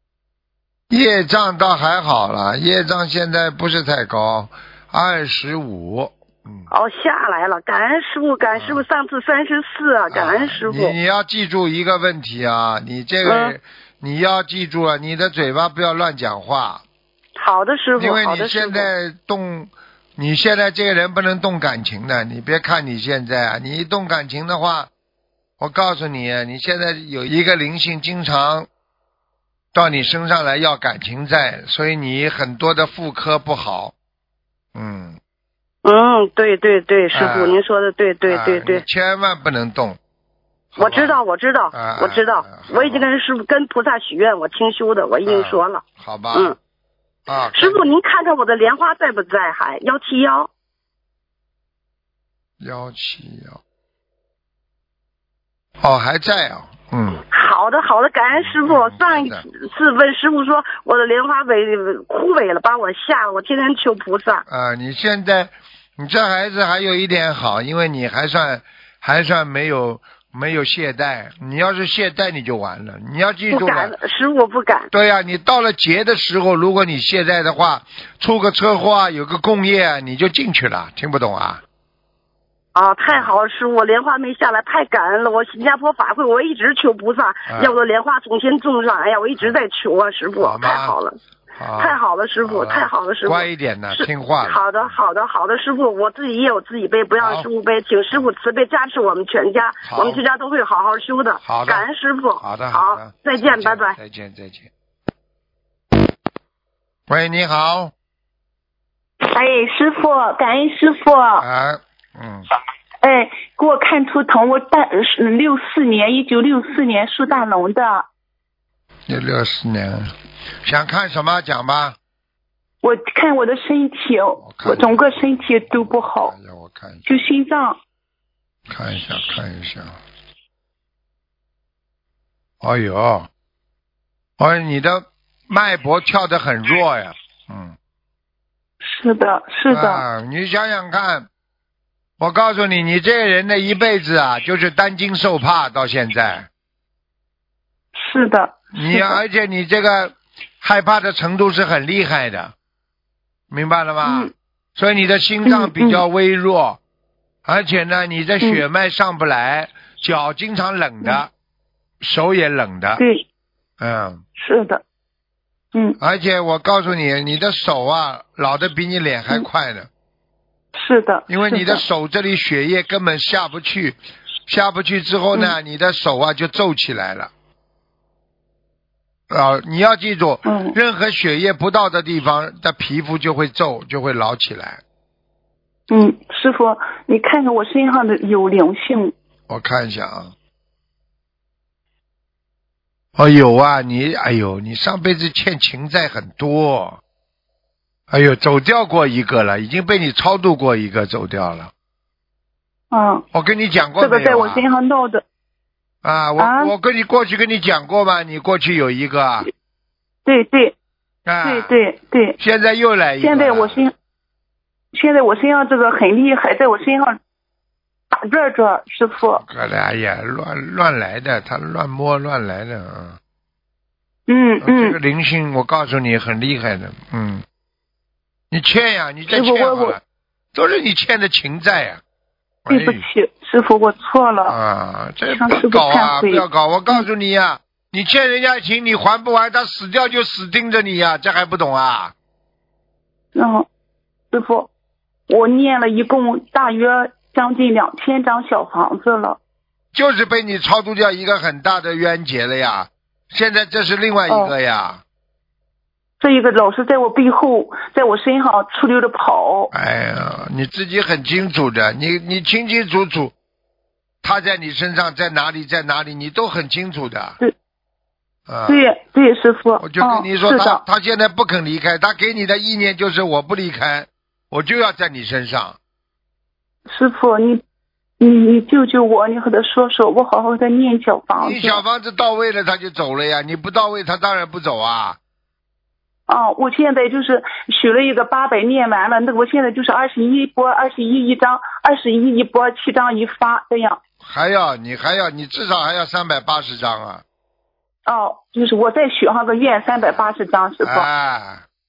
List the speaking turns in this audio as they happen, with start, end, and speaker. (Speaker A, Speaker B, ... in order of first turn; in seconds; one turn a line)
Speaker A: 0.9-6.7
Speaker B: 6.7-10.9
Speaker A: 8.6-8.8
Speaker A: 10.1-16.8
Speaker B: 13.2-13.6
Speaker B: 17.4-18.9
Speaker A: 18.0-24.9
Speaker A: 25.6-28.7
Speaker A: 29.7-33.9
Speaker A: 34.8-35.2
Speaker B: 35.8-38.8
Speaker A: 37.1-37.6
Speaker A: 38.2-40.0
Speaker A: 40.7-41.2
Speaker B: 40.8-46.6
Speaker A: 41.7-43.1
Speaker A: 45.2-46.6
Speaker A: 47.3-48.0
Speaker B: 47.5-50.5
Speaker A: 52.6-53.6
Speaker A: 55.8-57.2
Speaker B: 57.3-64.5
Speaker A: 58.3-59.5
Speaker A: 64.5-74.0
Speaker B: 73.5-74.9
Speaker A: 74.9-81.6
Speaker B: 82.8-91.2
Speaker A: 83.1-83.3
Speaker A: 87.5-87.8
Speaker A: 90.4-91.0
Speaker A: 91.6-95.0
Speaker B: 91.8-104.0
Speaker A: 97.2-97.5
Speaker A: 99.8-100.2
Speaker A: 101.4-101.9
Speaker A: 102.4-104.7
Speaker A: 107.1-107.9
Speaker C: 109.2-111.5
Speaker A: 111.4-112.5
Speaker C: 113.0-118.1
Speaker A: 119.1-120.1
Speaker A: 120.6-122.0
Speaker C: 122.8-126.3
Speaker A: 124.4-127.1
Speaker C: 127.1-127.8
Speaker A: 128.7-130.0
Speaker A: 132.6-133.3
Speaker A: 134.4-137.8
Speaker C: 138.8-140.0
Speaker A: 139.7-141.3
Speaker A: 142.2-146.5
Speaker C: 147.9-149.2
Speaker A: 148.7-152.5
Speaker A: 153.5-156.8
Speaker C: 154.0-154.3
Speaker C: 155.4-156.0
Speaker A: 157.4-161.3
Speaker A: 162.0-163.0
Speaker C: 163.0-163.2
Speaker A: 163.8-164.2
Speaker C: 164.4-164.8
Speaker A: 166.0-169.9
Speaker C: 170.8-171.8
Speaker A: 171.3-177.3
Speaker A: 179.3-184.8
Speaker C: 180.4-180.8
Speaker C: 185.9-189.2
Speaker A: 189.5-190.3
Speaker A: 193.2-197.0
Speaker A: 198.1-201.7
Speaker C: 202.9-203.2
Speaker A: 203.3-204.7
Speaker C: 204.0-205.2
Speaker A: 206.0-209.5
Speaker C: 206.4-206.7
Speaker C: 210.2-210.8
Speaker A: 211.3-211.8
Speaker C: 211.4-212.4
Speaker A: 212.4-213.8
Speaker C: 213.2-213.9
Speaker C: 214.9-217.2
Speaker C: 218.1-219.4
Speaker A: 219.4-223.2
Speaker C: 224.3-225.0
Speaker A: 224.6-227.4
Speaker A: 228.5-230.0
Speaker C: 229.3-230.0
Speaker A: 230.5-232.0
Speaker A: 232.7-233.0
Speaker C: 232.7-234.6
Speaker A: 234.5-242.1
Speaker C: 235.3-237.0
Speaker C: 243.3-243.7
Speaker C: 244.3-244.7
Speaker C: 245.3-249.4
Speaker A: 249.9-255.0
Speaker C: 254.3-254.5
Speaker C: 256.2-259.7
Speaker A: 259.7-263.3
Speaker A: 264.2-267.4
Speaker A: 268.5-268.9
Speaker C: 268.7-270.8
Speaker A: 269.8-275.8
Speaker C: 276.9-277.6
Speaker C: 278.2-281.8
Speaker A: 281.4-285.2
Speaker C: 286.3-294.0
Speaker A: 294.2-297.2
Speaker C: 298.1-301.1
Speaker A: 299.9-300.2
Speaker A: 300.8-301.6